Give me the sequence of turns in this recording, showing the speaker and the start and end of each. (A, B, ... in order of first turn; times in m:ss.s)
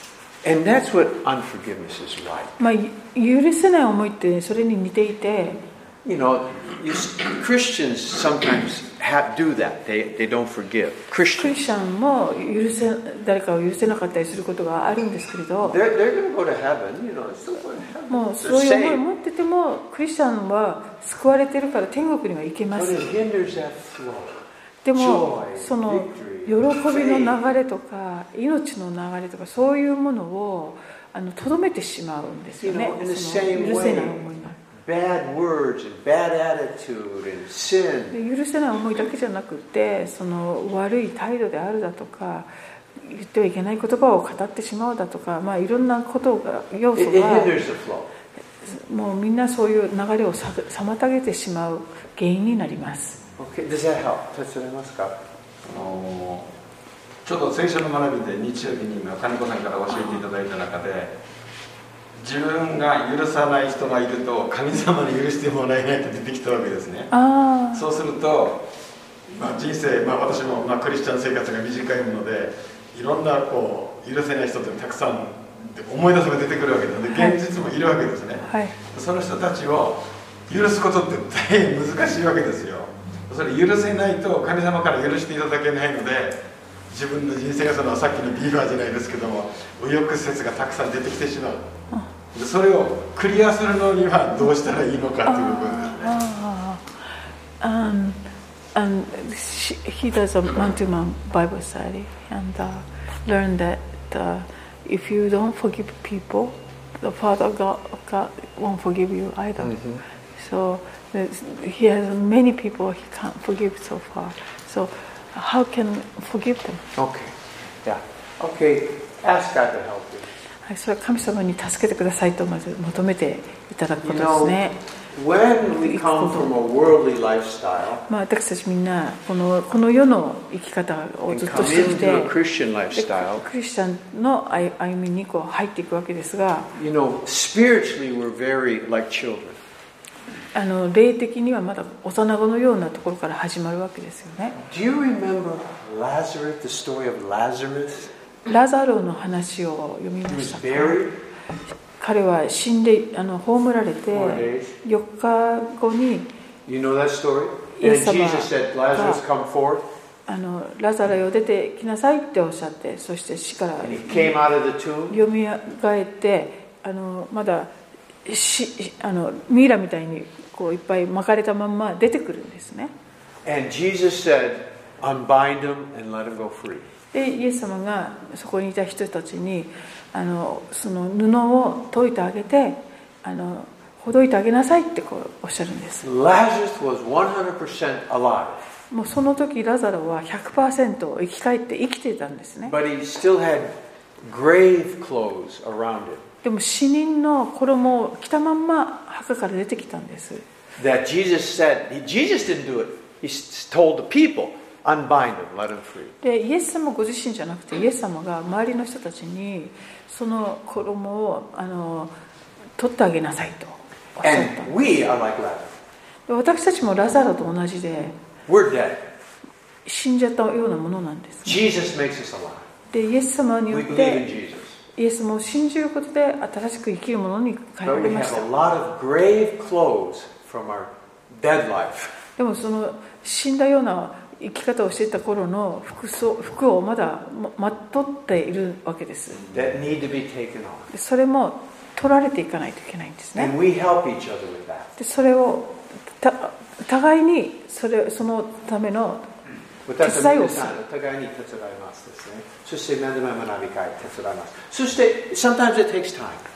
0:00.4-0:02.5 A
0:02.6-0:05.6 B
0:06.0-0:11.6 A
0:11.4-0:15.8 B
0:15.6-0:19.0 A
0:18.1-0:23.1 B
0:22.7-0:27.4 A
0:24.8-0:34.6 B
0:32.6-0:38.2 A
0:38.1-0:47.6 B
0:46.9-0:48.1 A
0:48.6-0:53.2 B
0:53.4-0:55.2 A
0:55.6-0:56.5 C
0:57.2-1:01.1 C
1:02.2-1:07.1 C
1:07.1-1:07.8 B
1:07.7-1:08.7 C
1:09.3-1:31.6 C
1:17.1-1:17.4 B
1:18.4-1:18.8 B
1:32.3-1:36.2 C
1:35.2-1:38.2 B
1:38.7-1:49.8 B
1:49.6-1:50.0 A
1:50.3-1:56.8 B
1:57.0-2:00.3 A
2:00.6-2:04.8 B
2:04.0-2:04.6 A
2:05.1-2:08.0 A
2:05.8-2:06.5 B
2:08.1-2:12.4 B
2:11.3-2:13.4 A
2:12.9-2:16.7 B
2:16.7-2:19.6 A
2:20.5-2:24.6 B
2:24.6-2:28.1 A
2:28.4-2:31.0 B
2:30.3-2:31.2 A
2:32.0-2:36.3 B
2:34.1-2:34.7 A
2:36.6-2:39.8 A
2:37.8-2:39.2 B
2:40.3-2:44.4 B
2:43.8-2:45.2 A
2:45.1-2:47.7 B
2:48.2-2:52.9 B
2:53.4-2:56.9 A
2:57.1-3:06.0 B
3:06.0-3:08.6 A
3:08.9-3:12.8 B
3:12.6-3:16.3 A
3:16.4-3:20.4 B
3:20.8-3:26.1 A
3:26.2-3:32.1 B
3:32.8-3:34.7 B
3:34.2-3:35.7 A
3:36.3-3:38.2 B
3:38.5-3:39.1 A
3:39.8-3:41.6 B
3:41.4-3:42.7 A
3:42.9-3:44.3 B
3:43.7-3:44.8 A
3:44.9-3:48.5 B
3:47.8-3:52.1 A
3:52.4-3:59.5 B
3:59.5-4:00.9 A
4:00.9-4:03.5 B
4:03.4-4:04.9 A
4:05.0-4:09.3 B
4:09.9-4:16.4 A
4:10.0-4:10.8 B